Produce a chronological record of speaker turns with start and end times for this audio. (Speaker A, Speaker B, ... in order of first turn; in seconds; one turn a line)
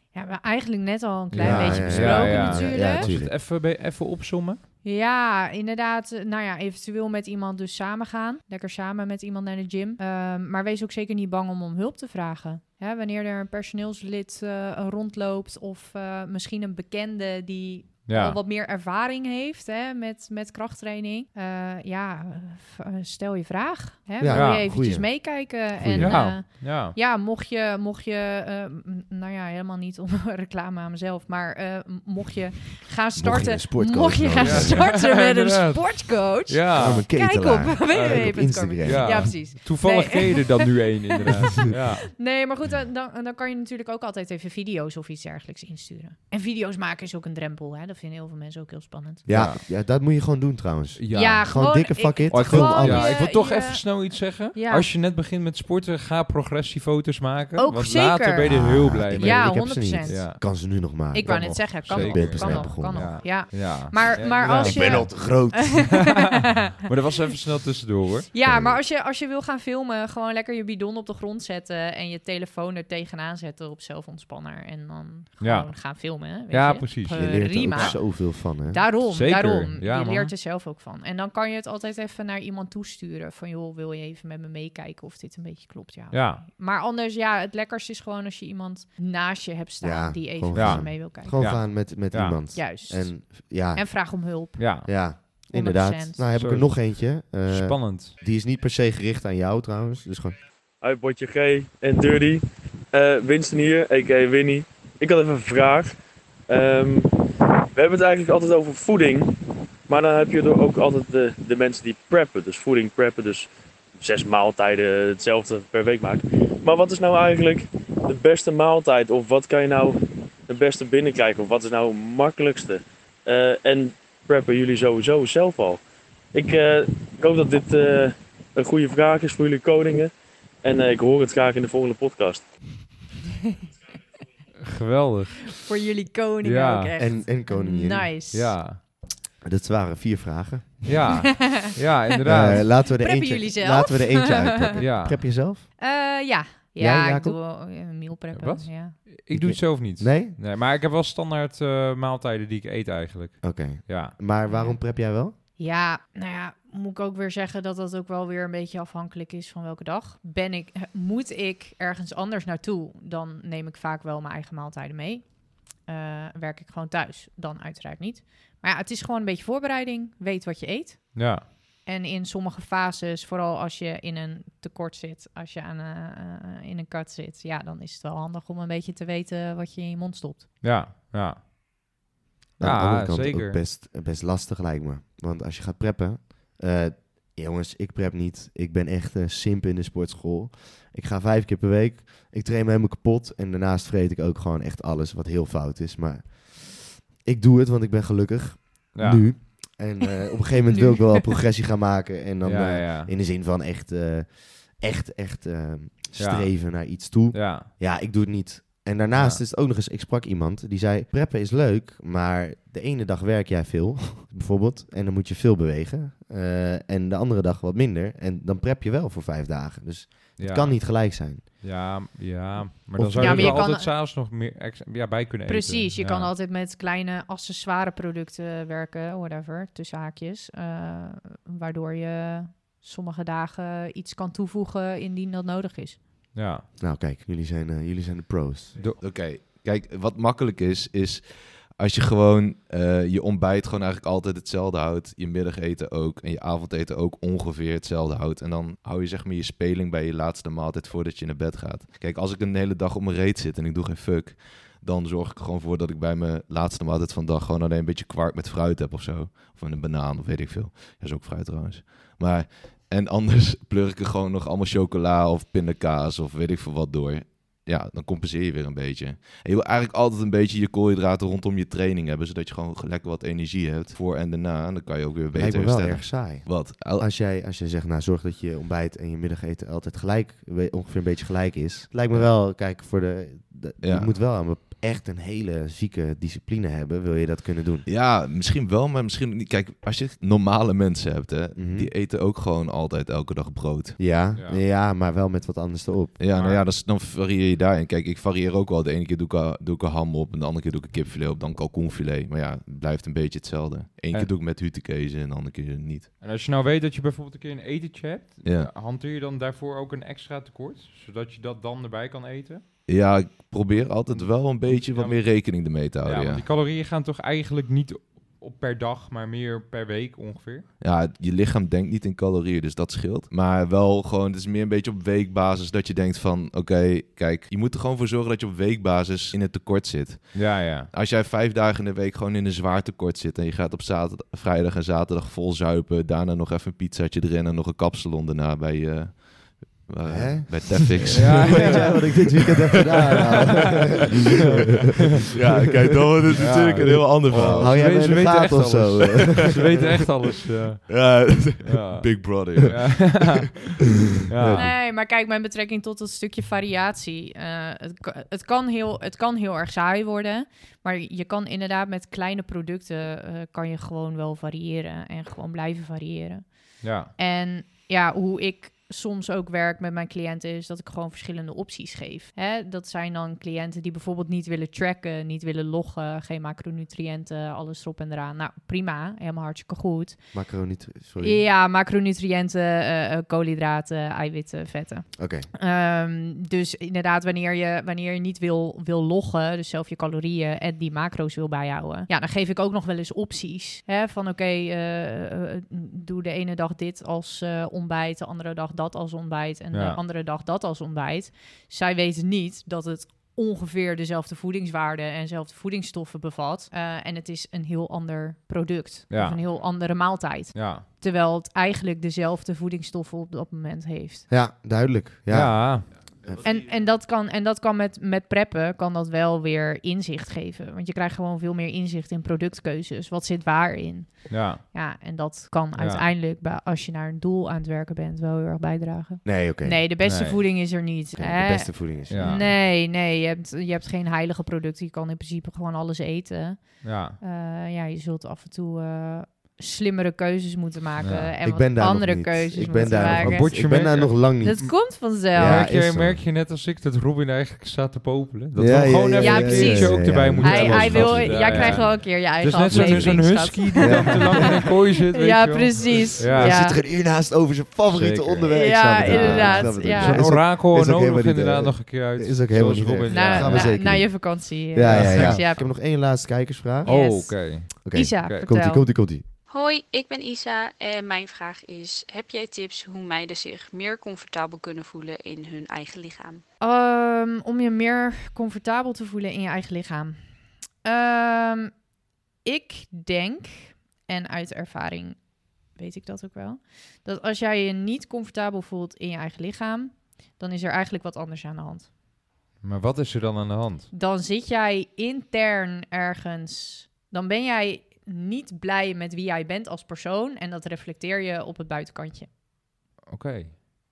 Speaker A: 0.1-3.0
Speaker B: 1.3-4.6
Speaker C: 1.4-3.3
Speaker A: 4.8-49.2
Speaker B: 18.1-18.4
Speaker C: 24.2-26.3
Speaker B: 24.3-24.7
Speaker B: 26.0-26.9
Speaker C: 33.1-34.9
Speaker B: 34.4-37.1
Speaker C: 36.7-39.4
Speaker B: 37.9-42.1
Speaker C: 49.2-53.2
Speaker B: 49.3-49.6
Speaker B: 51.0-51.6
Speaker A: 51.1-54.9
Speaker B: 52.3-60.4
Speaker A: 57.5-66.8
Speaker C: 58.4-63.4
Speaker B: 61.9-68.3
Speaker C: 64.4-66.1
Speaker A: 68.3-91.3
Speaker C: 68.4-68.8
Speaker B: 75.4-78.0
Speaker C: 77.1-78.8
Speaker B: 79.1-80.3
Speaker B: 86.1-86.4
Speaker C: 89.8-93.9
Speaker B: 90.5-92.4
Speaker A: 92.5-96.2
Speaker B: 94.6-94.9
Speaker C: 94.8-100.4
Speaker B: 96.3-98.2
Speaker D: 100.8-105.9
Speaker D: 106.5-107.1
Speaker D: 107.7-109.3
Speaker D: 109.9-125.8
Speaker D: 126.3-130.1
Speaker D: 130.6-132.4
Speaker B: 134.6-135.5
Speaker A: 135.5-138.6
Speaker B: 136.4-136.9
Speaker C: 137.0-138.1
Speaker B: 138.3-138.8
Speaker C: 139.4-140.9
Speaker B: 140.8-142.7
Speaker A: 141.3-144.8
Speaker C: 142.2-145.8
Speaker B: 144.8-145.2
Speaker A: 145.8-149.0
Speaker C: 146.8-147.4
Speaker B: 148.3-154.2
Speaker C: 149.3-150.4
Speaker C: 153.4-155.3
Speaker A: 154.5-154.8
Speaker A: 155.3-180.5
Speaker B: 171.1-171.4
Speaker B: 180.6-181.4
Speaker C: 182.6-221.7
Speaker B: 182.6-183.6
Speaker B: 198.9-199.3
Speaker A: 200.7-201.2
Speaker B: 202.4-203.1
Speaker B: 206.2-207.7
Speaker B: 209.1-209.4
Speaker B: 220.4-226.3
Speaker C: 222.9-223.7
Speaker A: 223.2-223.9
Speaker A: 225.5-236.0
Speaker B: 236.3-236.6
Speaker C: 236.8-238.8
Speaker E: 239.0-277.1
Speaker C: 275.3-287.9
Speaker E: 283.8-284.1
Speaker E: 287.9-294.1
Speaker C: 291.5-291.9
Speaker C: 294.0-296.2
Speaker B: 294.3-294.6
Speaker E: 296.2-306.1
Speaker B: 296.3-296.6
Speaker B: 306.2-312.6
Speaker E: 308.4-308.7
Speaker E: 312.9-316.4
Speaker B: 314.1-320.7
Speaker E: 320.8-343.6
Speaker B: 330.3-330.9
Speaker C: 340.1-344.4
Speaker B: 341.1-341.9
Speaker E: 345.3-348.3
Speaker B: 346.3-350.9
Speaker C: 346.4-349.8
Speaker E: 349.4-349.8
Speaker E: 350.9-353.3
Speaker B: 351.6-353.6
Speaker B: 354.3-354.8
Speaker C: 354.4-354.6
Speaker A: 354.6-380.2
Speaker B: 366.8-367.1
Speaker C: 380.3-381.4
Speaker A: 381.2-414.3
Speaker C: 385.2-385.5
Speaker B: 399.7-400.0
Speaker B: 409.1-409.4
Speaker B: 410.5-410.9
Speaker C: 414.3-416.4
Speaker B: 415.3-415.9
Speaker A: 416.4-443.8
Speaker B: 424.3-424.6
Speaker B: 425.7-426.1
Speaker C: 429.2-429.8
Speaker B: 430.0-430.4
Speaker C: 431.1-432.5
Speaker B: 432.1-432.5
Speaker B: 436.8-437.2
Speaker B: 441.0-441.3
Speaker C: 441.4-446.2
Speaker B: 442.8-456.7
Speaker A: 444.4-445.7
Speaker C: 448.6-452.1
Speaker A: 449.2-456.8
Speaker C: 452.7-454.6
Speaker C: 456.3-466.9
Speaker B: 457.9-464.0
Speaker A: 458.5-460.3
Speaker A: 463.1-465.7
Speaker B: 464.8-465.4
Speaker B: 466.8-468.4
Speaker A: 466.8-468.9
Speaker C: 467.8-469.2
Speaker F: 469.5-476.4
Speaker A: 476.6-480.2
Speaker A: 480.8-481.7
Speaker A: 482.4-485.2
Speaker A: 485.7-491.9
Speaker B: 492.6-493.9
Speaker A: 493.9-502.3
Speaker B: 503.1-503.6